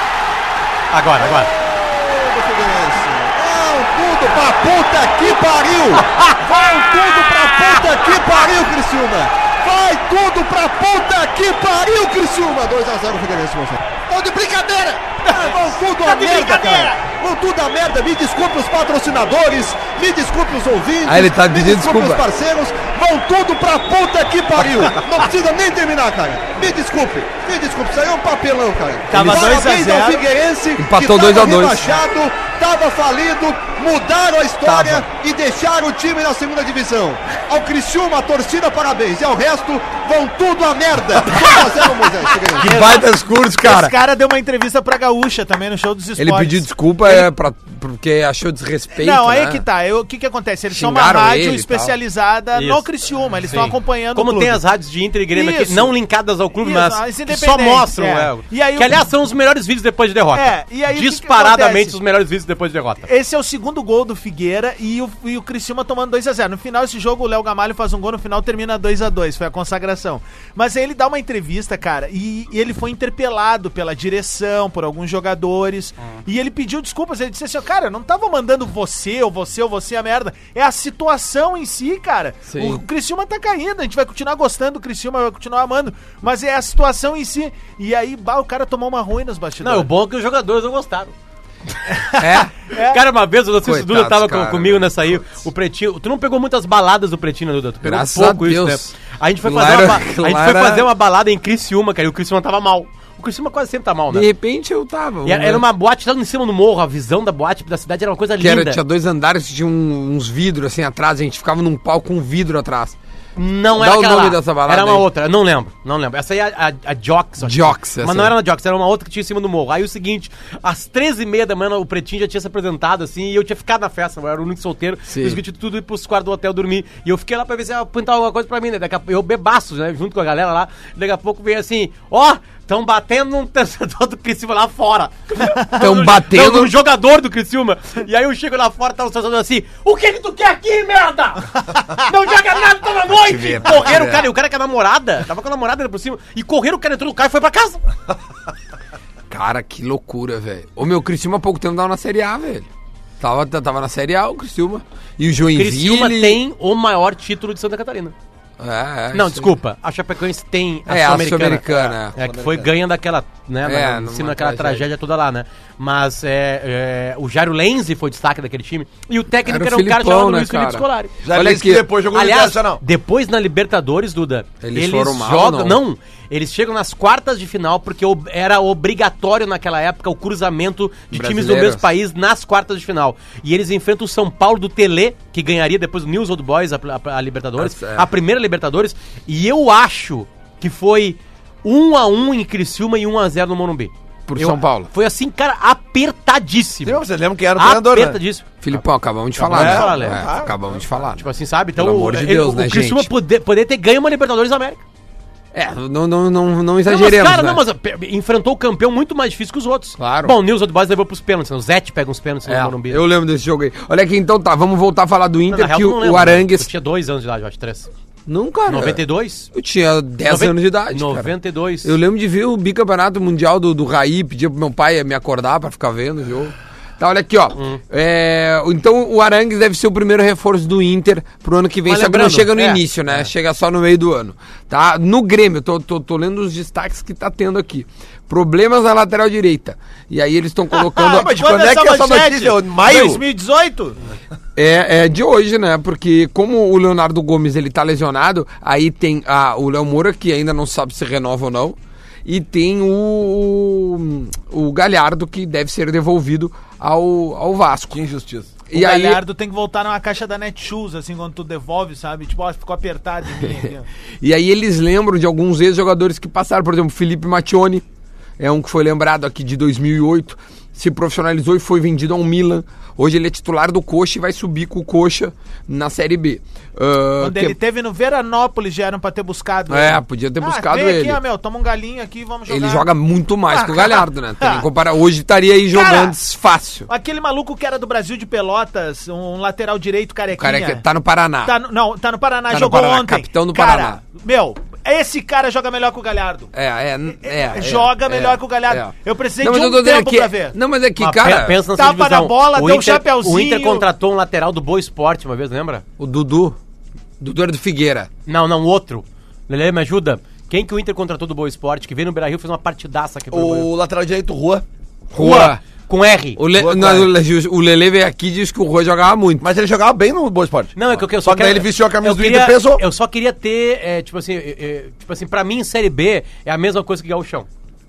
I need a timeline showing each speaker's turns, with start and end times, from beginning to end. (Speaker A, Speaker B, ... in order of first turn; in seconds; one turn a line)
Speaker A: 0.9-1.5
Speaker B: 1.2-42.8
Speaker C: 15.3-15.6
Speaker A: 16.0-16.9
Speaker C: 16.1-16.7
Speaker D: 21.1-22.2
Speaker C: 29.1-30.3
Speaker D: 30.8-32.0
Speaker D: 34.6-35.1
Speaker D: 42.6-44.0
Speaker C: 42.7-43.0
Speaker C: 43.6-47.3
Speaker D: 46.2-49.6
Speaker C: 49.0-54.6
Speaker D: 50.7-52.0
Speaker A: 52.5-52.8
Speaker A: 53.5-63.1
Speaker C: 55.3-56.0
Speaker C: 56.6-59.0
Speaker C: 60.3-62.0
Speaker C: 63.0-89.9
Speaker D: 82.5-82.8
Speaker A: 89.6-91.1
Speaker C: 92.0-93.0
Speaker D: 92.2-92.5
Speaker A: 92.8-104.3
Speaker D: 93.6-95.2
Speaker D: 97.8-100.9
Speaker D: 104.1-105.7
Speaker A: 105.2-108.8
Speaker D: 108.4-113.0
Speaker A: 113.4-147.8
Speaker D: 113.7-115.1
Speaker D: 117.4-118.3
Speaker D: 125.1-125.4
Speaker D: 135.7-136.7
Speaker D: 143.1-144.3
Speaker D: 149.3-152.7
Speaker D: 153.2-156.4
Speaker A: 155.6-158.1
Speaker D: 158.6-159.5
Speaker A: 159.1-171.2
Speaker D: 160.9-162.1
Speaker E: 161.7-162.7
Speaker D: 163.6-164.9
Speaker D: 169.4-171.9
Speaker E: 171.2-172.8
Speaker A: 172.1-197.0
Speaker D: 174.6-175.8
Speaker D: 181.1-181.9
Speaker D: 187.6-188.1
Speaker D: 194.3-194.9
Speaker E: 196.8-198.2
Speaker A: 197.6-198.8
Speaker D: 198.6-203.1
Speaker A: 199.4-200.4
Speaker E: 199.5-200.6
Speaker A: 201.2-204.8
Speaker D: 205.5-207.6
Speaker A: 206.9-213.0
Speaker D: 210.0-210.3
Speaker D: 212.5-216.7
Speaker A: 215.5-217.9
Speaker D: 218.3-219.0
Speaker A: 218.7-219.5
Speaker D: 219.5-221.3
Speaker A: 220.3-221.9
Speaker D: 221.8-241.4
Speaker A: 231.9-233.3
Speaker C: 240.7-244.0
Speaker E: 241.1-243.2
Speaker D: 244.6-258.0
Speaker E: 257.9-258.6
Speaker D: 258.7-259.2
Speaker C: 258.7-263.9
Speaker D: 264.2-267.8
Speaker D: 268.4-277.6
Speaker C: 277.2-282.9
Speaker D: 279.7-281.2
Speaker D: 282.5-286.9
Speaker C: 283.5-284.6
Speaker C: 285.7-286.2
Speaker C: 286.9-290.8
Speaker D: 290.3-291.6
Speaker C: 291.4-296.5
Speaker D: 292.5-294.0
Speaker D: 296.5-301.6
Speaker C: 297.2-300.6
Speaker A: 301.0-305.8
Speaker C: 301.7-303.9
Speaker D: 306.0-306.6
Speaker D: 307.2-308.1
Speaker A: 308.3-313.7
Speaker E: 313.3-314.6
Speaker D: 315.1-315.6
Speaker A: 315.2-316.4
Speaker D: 316.4-319.5
Speaker E: 316.5-317.1
Speaker E: 319.4-322.8
Speaker A: 320.8-327.5